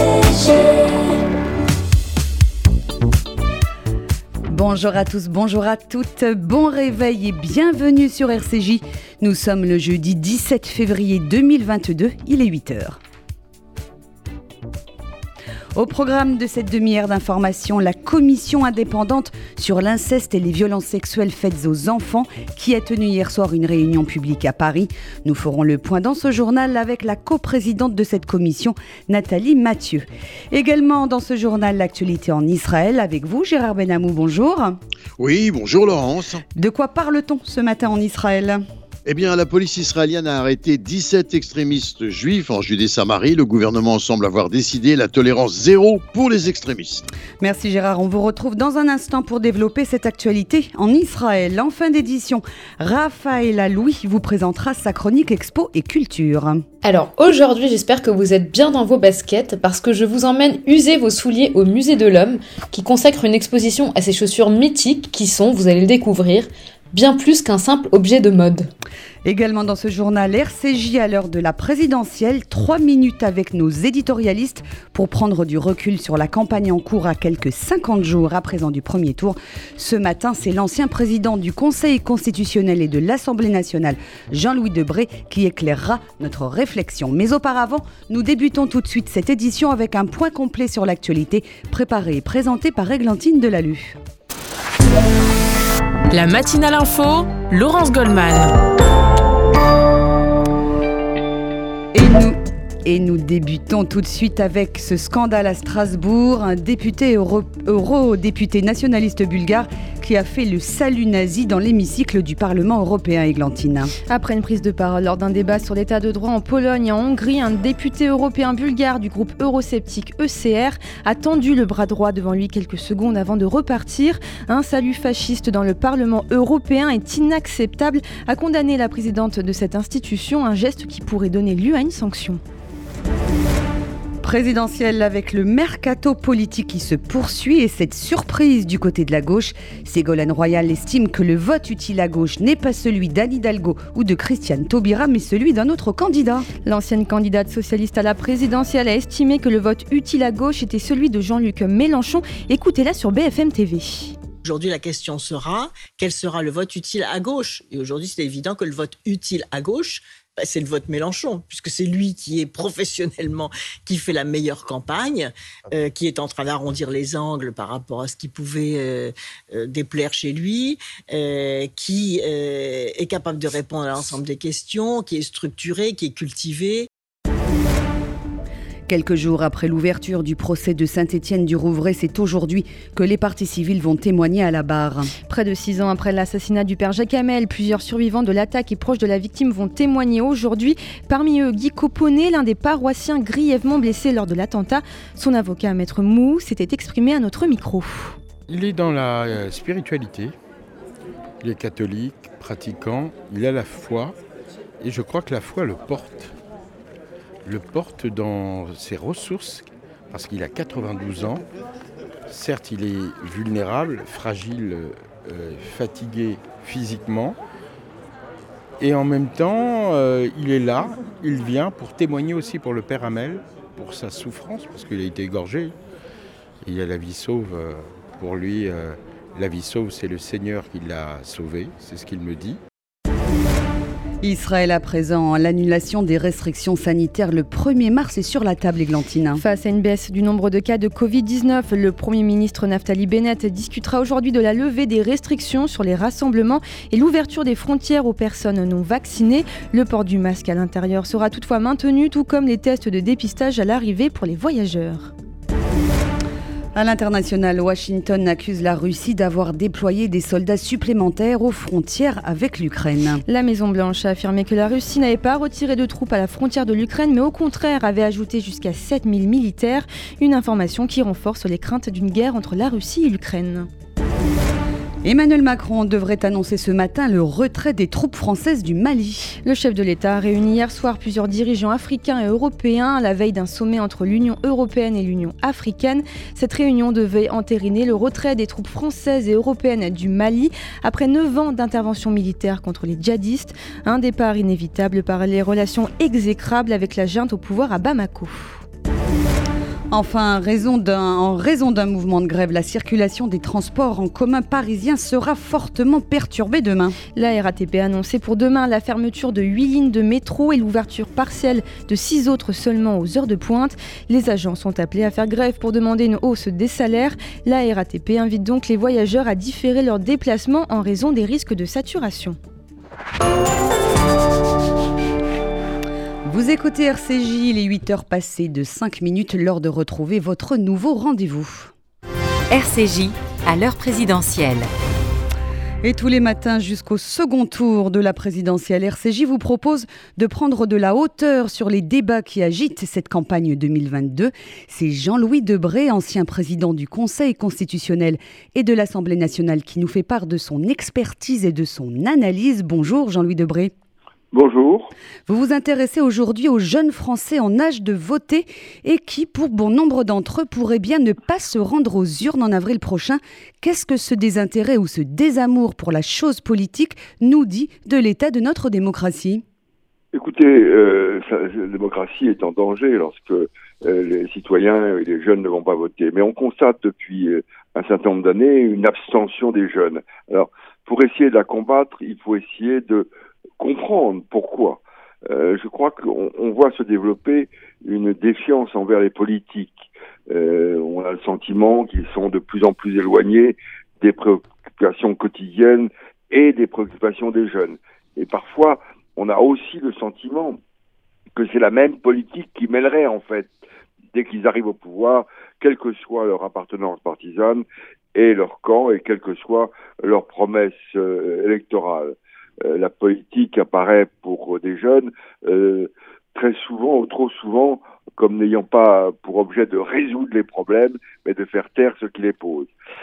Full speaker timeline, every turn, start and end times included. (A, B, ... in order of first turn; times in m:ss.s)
0:04.5-0:13.0 A
0:15.7-0:34.8 A
0:35.2-0:36.4 B
0:36.5-0:38.6 A
0:39.0-0:47.0 B
0:47.4-0:56.6 A
0:56.8-1:08.7 C
1:09.2-1:34.0 A
1:36.1-1:38.5 D
1:41.9-1:53.9 A
1:54.1-2:12.4 E
2:14.2-2:26.5 A
2:26.6-2:34.2 E
2:34.4-2:56.9 F
2:58.9-3:05.1 A
3:05.2-3:18.2 E
3:18.5-3:20.3 G
3:21.4-3:24.2 G
3:24.8-3:26.3 G
3:27.4-3:31.4 G
3:32.3-3:37.4 G
3:38.8-3:45.8 G
3:46.6-3:52.6 G
3:54.2-3:59.4 A
3:59.4-4:15.1 E
4:16.7-4:23.2 A
4:23.3-4:33.7 E
4:35.0-4:39.4 A
4:39.4-4:58.6 E
4:59.9-5:07.0 A
5:07.1-5:22.4 E
5:26.2-5:31.7 A
5:32.5-5:34.7 H
5:35.8-5:53.7 A
5:54.3-5:54.9 I
5:55.3-6:09.4 A
6:10.1-6:23.1 I
6:23.6-6:40.6 I
6:41.4-6:43.5 I
6:44.1-7:02.7 I